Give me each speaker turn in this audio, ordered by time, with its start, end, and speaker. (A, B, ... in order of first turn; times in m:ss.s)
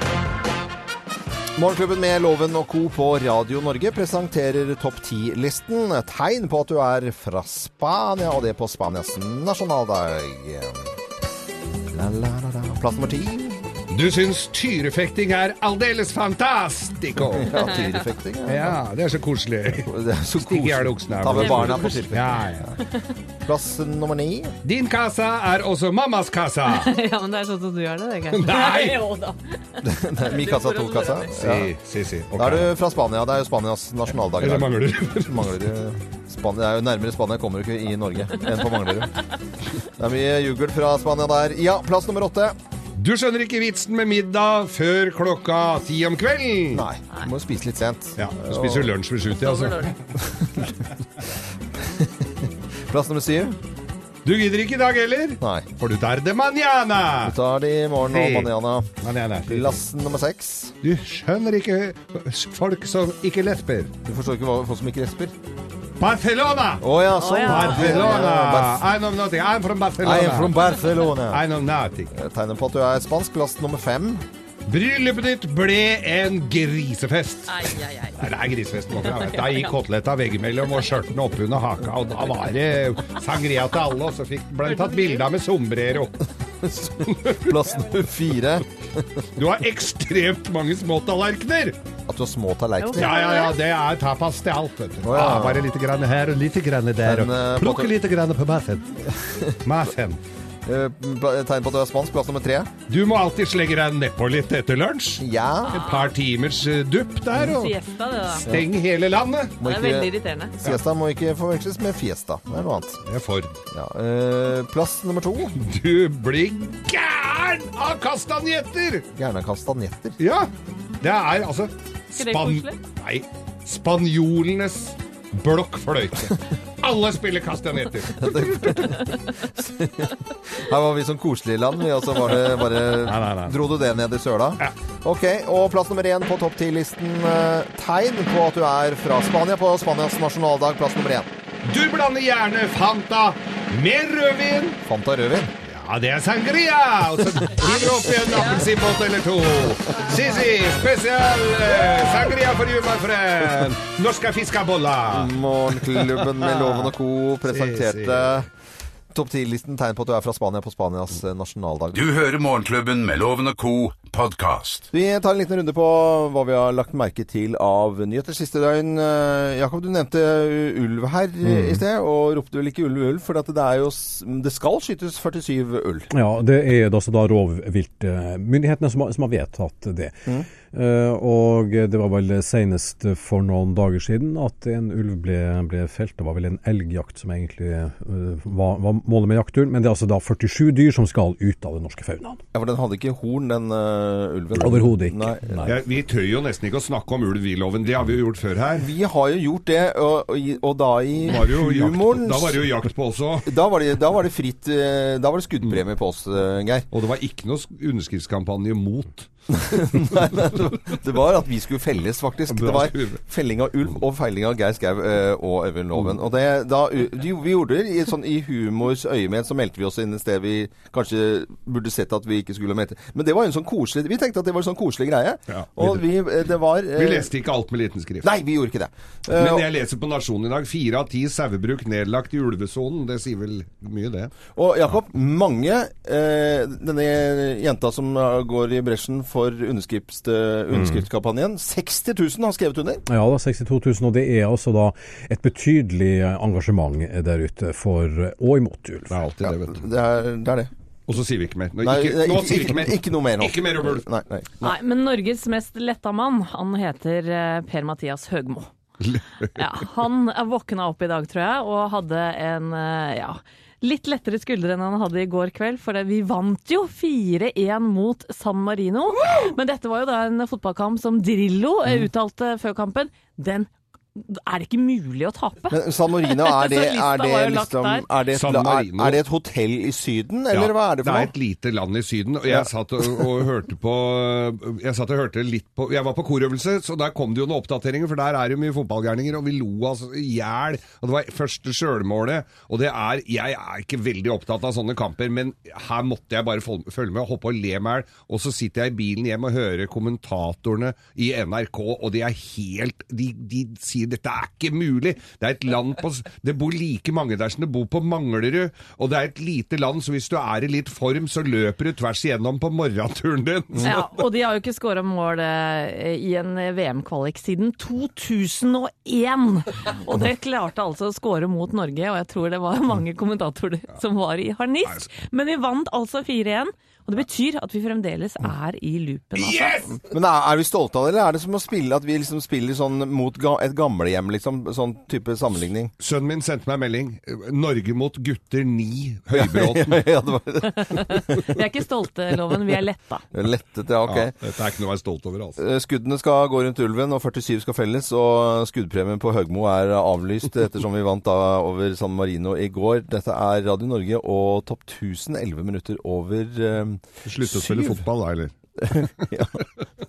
0:01.6-0:10.9 A
0:11.9-0:13.7 A
0:13.9-0:17.5 B
0:17.3-0:18.8 A
0:18.4-0:19.9 B
0:19.7-0:22.8 A
0:20.4-0:22.7 B
0:21.4-0:22.0 C
0:23.4-0:24.6 A
0:24.6-0:27.0 B
0:26.7-0:31.3 C
0:28.3-0:29.0 B
0:29.8-0:31.7 A
0:31.4-0:32.7 B
0:32.3-0:39.2 A
0:34.4-0:35.5 B
0:40.0-0:42.6 A
0:43.0-0:46.8 B
0:46.7-0:48.9 A
0:48.2-0:50.0 B
0:49.4-0:49.9 C
0:51.8-0:53.5 A
0:54.2-0:57.4 B
0:55.4-0:55.7 A
0:57.2-0:58.9 A
0:58.1-0:59.8 B
0:59.4-1:00.8 A
1:00.8-1:03.9 B
1:04.0-1:05.3 A
1:06.0-1:06.8 B
1:06.8-1:08.8 A
1:07.2-1:08.2 C
1:07.4-1:10.7 B
1:10.0-1:11.4 A
1:11.3-1:12.1 B
1:12.1-1:14.2 A
1:14.6-1:26.2 B
1:17.5-1:18.2 C
1:19.1-1:19.7 C
1:24.6-1:25.2 C
1:26.6-1:29.2 A
1:27.1-1:27.6 B
1:29.4-1:31.8 B
1:32.1-1:33.3 A
1:32.8-1:33.5 C
1:33.0-1:39.0 B
1:35.0-1:35.7 A
1:37.0-1:37.9 A
1:39.1-1:39.6 A
1:39.6-1:40.2 B
1:40.6-1:42.7 A
1:42.9-1:47.8 B
1:45.2-1:45.7 A
1:45.7-1:46.1 C
1:47.4-1:48.5 C
1:48.4-1:49.6 B
1:49.6-1:53.0 A
1:49.6-1:50.6 C
1:53.1-1:53.6 B
1:53.7-1:55.6 A
1:55.6-1:59.1 B
1:59.1-2:00.2 A
2:00.2-2:00.5 B
2:01.0-2:08.5 B
2:02.2-2:02.8 C
2:08.1-2:21.3 A
2:13.0-2:13.6 B
2:21.6-2:24.8 B
2:24.8-2:25.5 A
2:25.6-2:36.9 B
2:28.3-2:28.6 C
2:35.1-2:38.5 A
2:37.4-2:38.5 B
2:39.1-2:42.0 A
2:41.9-2:44.9 D
2:44.9-2:56.1 A
2:56.1-3:12.4 E
3:12.5-3:15.7 A
3:14.6-3:15.6 E
3:15.6-3:18.8 B
3:18.8-3:22.7 A
3:21.2-3:23.5 B
3:23.4-3:26.9 A
3:26.9-3:30.6 B
3:29.6-3:47.3 A
3:32.5-3:33.2 B
3:45.5-3:46.0 B
3:47.0-3:48.3 B
3:48.2-3:49.6 A
3:49.4-3:54.3 B
3:54.6-4:03.0 A
4:03.1-4:09.2 E
4:09.1-4:09.8 B
4:09.4-4:10.7 A
4:11.1-4:14.0 B
4:11.8-4:14.5 A
4:14.6-4:18.7 C
4:19.0-4:19.4 B
4:19.6-4:38.1 C
4:35.7-4:41.3 A
4:38.3-4:39.2 B
4:40.5-5:13.9 B
4:42.5-4:43.3 A
5:13.8-5:30.0 C
5:29.4-5:30.0 B
5:30.0-5:35.9 A
5:36.0-5:40.0 B
5:39.3-5:41.4 A
5:40.6-5:43.2 C
5:43.3-5:44.4 A
5:44.1-5:45.6 B
5:45.6-5:58.0 A
5:57.2-5:59.3 B
5:58.8-5:59.6 A